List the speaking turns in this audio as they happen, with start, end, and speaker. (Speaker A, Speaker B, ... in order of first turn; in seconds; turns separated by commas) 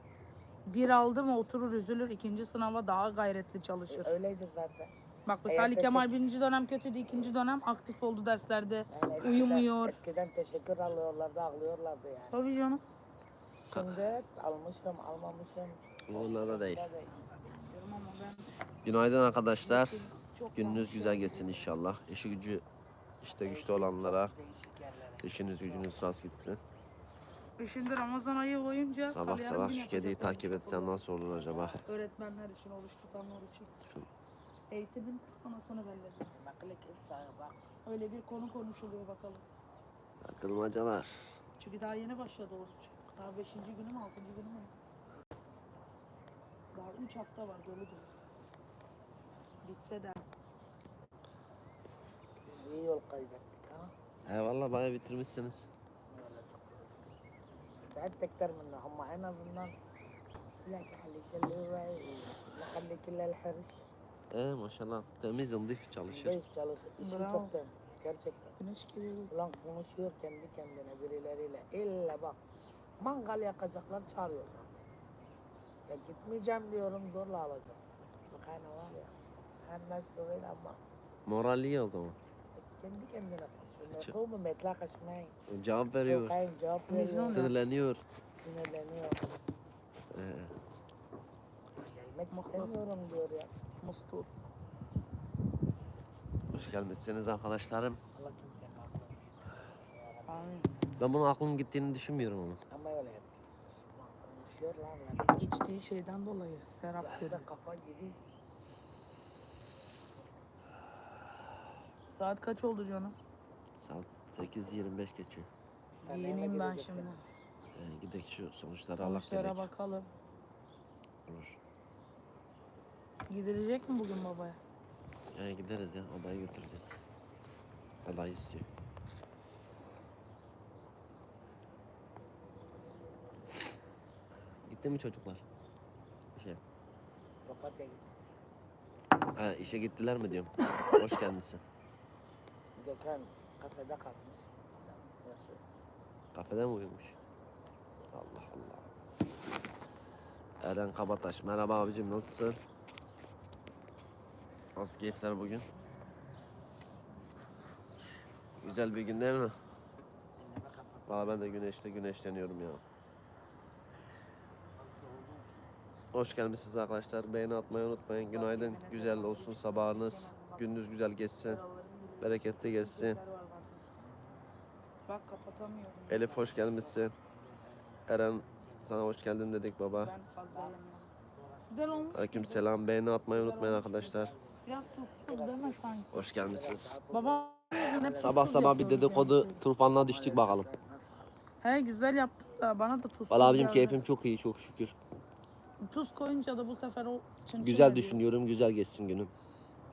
Speaker A: 0.7-4.1, Speaker B: 3.9-4.9, Speaker A: 5.2-10.0, Speaker B: 5.5-6.1, Speaker B: 8.9-12.4, Speaker A: 12.3-12.8, Speaker B: 13.6-17.1, Speaker C: 16.1-16.9, Speaker A: 17.6-18.5, Speaker C: 18.8-22.6, Speaker A: 19.6-21.7, Speaker C: 23.2-24.3, Speaker B: 23.4-26.1, Speaker C: 25.2-26.6, Speaker A: 27.6-31.0, Speaker C: 29.1-31.8, Speaker B: 31.2-31.8, Speaker A: 31.8-33.7, Speaker C: 33.8-34.1, Speaker A: 34.7-36.3, Speaker B: 36.3-37.7, Speaker A: 37.8-39.4, Speaker C: 40.2-41.3, Speaker A: 41.6-44.7, Speaker A: 46.7-48.1, Speaker A: 49.6-50.2, Speaker B: 52.5-53.9, Speaker C: 54.2-55.7, Speaker B: 56.1-57.0, Speaker B: 57.8-59.7, Speaker B: 60.6-63.8, Speaker C: 64.3-66.4, Speaker B: 66.1-68.5, Speaker A: 67.0-67.5, Speaker A: 68.6-69.3, Speaker B: 69.3-72.4, Speaker B: 73.0-74.9, Speaker B: 75.9-80.8, Speaker C: 81.2-82.2, Speaker B: 82.5-85.3, Speaker C: 85.5-86.4, Speaker B: 86.0-87.5, Speaker A: 86.9-87.5, Speaker C: 87.2-88.0, Speaker B: 88.4-89.3, Speaker C: 90.1-90.5, Speaker B: 91.7-93.5, Speaker A: 92.3-92.7, Speaker A: 93.8-94.3, Speaker C: 96.5-98.0, Speaker B: 98.1-100.6, Speaker A: 100.3-100.8, Speaker C: 101.0-102.6, Speaker B: 102.7-105.5, Speaker A: 105.4-107.4, Speaker B: 107.0-108.2, Speaker A: 112.1-113.2, Speaker C: 113.8-115.5, Speaker A: 116.0-117.2, Speaker B: 116.0-117.2, Speaker C: 117.7-119.7, Speaker A: 119.0-120.1, Speaker C: 121.3-121.6, Speaker A: 123.3-124.6, Speaker C: 125.3-127.0, Speaker C: 128.0-128.7, Speaker C: 134.6-135.4, Speaker C: 136.3-136.6, Speaker B: 137.4-138.8, Speaker C: 139.3-141.6, Speaker B: 142.8-145.6, Speaker C: 146.3-147.2, Speaker C: 148.1-148.9, Speaker C: 150.6-152.6, Speaker C: 154.8-155.7, Speaker C: 158.6-159.6, Speaker B: 160.3-161.6, Speaker C: 161.1-162.8, Speaker B: 164.6-165.5, Speaker C: 166.1-171.6, Speaker A: 168.3-170.8, Speaker A: 171.4-173.8, Speaker C: 172.2-173.2, Speaker B: 174.0-174.5, Speaker A: 175.1-176.4, Speaker C: 176.1-177.1, Speaker B: 176.2-179.1, Speaker C: 178.1-180.1, Speaker A: 179.9-181.1, Speaker B: 180.5-182.2, Speaker A: 181.7-182.7, Speaker C: 182.1-184.3, Speaker A: 183.3-184.0, Speaker B: 183.7-188.7, Speaker A: 184.6-186.1, Speaker C: 186.1-187.0, Speaker A: 187.1-189.6, Speaker C: 188.1-190.7, Speaker B: 189.6-191.4, Speaker A: 191.6-194.0, Speaker C: 193.3-194.9, Speaker A: 195.8-198.2, Speaker C: 197.6-199.3